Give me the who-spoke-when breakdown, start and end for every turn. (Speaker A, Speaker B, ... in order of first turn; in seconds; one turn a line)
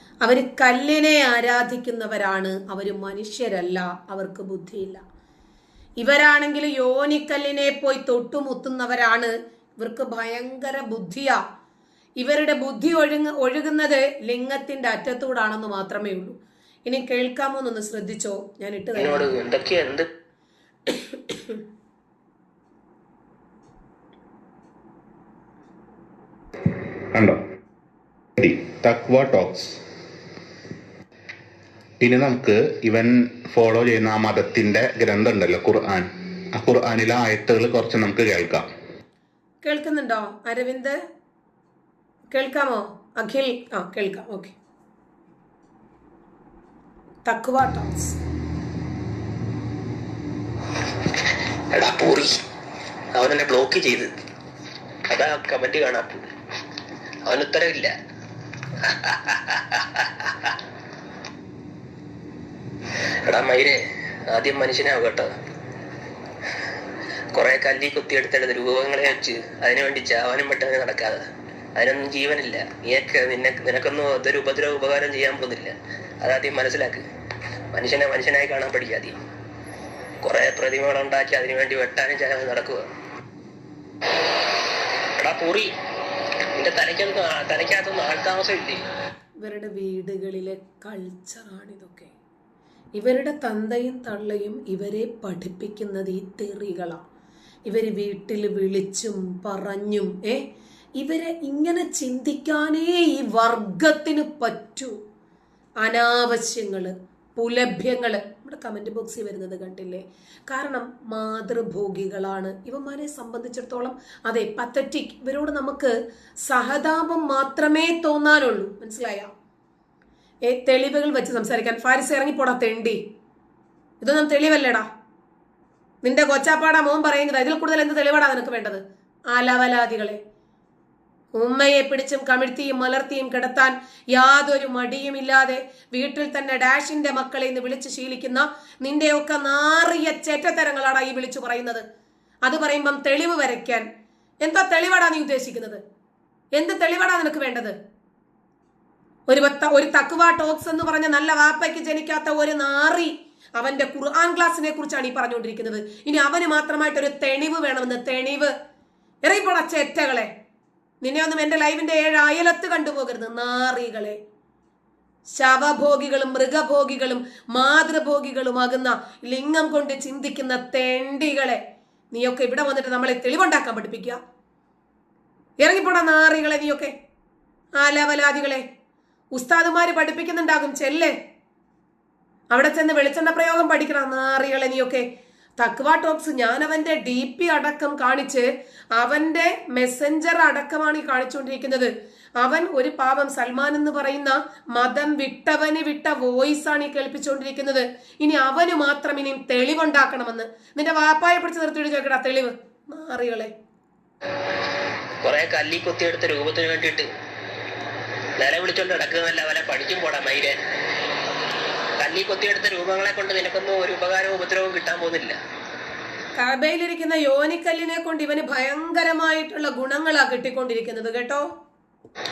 Speaker A: 0.2-5.0
Speaker A: 6.0-11.4
Speaker A: 12.2-16.4
Speaker A: 16.9-19.3
Speaker B: 19.0-20.1
Speaker A: 20.9-21.6
Speaker C: 27.1-27.4
Speaker C: 28.4-29.8
Speaker C: 32.0-38.7
Speaker A: 39.6-41.0
Speaker A: 42.3-44.5
Speaker A: 47.3-48.2
Speaker B: 51.7-52.3
Speaker B: 53.2-54.1
Speaker B: 55.1-56.3
Speaker B: 57.3-57.9
Speaker B: 58.8-60.6
Speaker B: 63.3-65.3
Speaker B: 67.3-71.2
Speaker B: 71.8-77.0
Speaker B: 77.7-79.2
Speaker B: 80.2-82.8
Speaker B: 85.2-85.7
Speaker B: 86.6-88.8
Speaker A: 89.4-92.1
Speaker A: 93.0-97.0
Speaker A: 97.7-100.4
Speaker A: 101.0-104.9
Speaker A: 105.8-115.9
Speaker A: 116.5-119.3
Speaker A: 120.5-123.0
Speaker A: 124.0-124.9
Speaker A: 126.0-130.2
Speaker A: 131.4-141.8
Speaker A: 142.5-143.9
Speaker A: 144.4-145.8
Speaker A: 146.5-147.8
Speaker A: 149.3-158.5
Speaker A: 159.2-160.3
Speaker A: 161.0-164.2
Speaker A: 165.3-171.6
Speaker A: 172.1-174.2
Speaker A: 175.6-176.9
Speaker A: 177.8-178.6
Speaker A: 179.3-181.1
Speaker A: 182.5-185.1
Speaker A: 185.6-203.5
Speaker B: 205.2-207.1
Speaker B: 208.4-210.6
Speaker B: 212.0-215.4
Speaker A: 216.4-221.4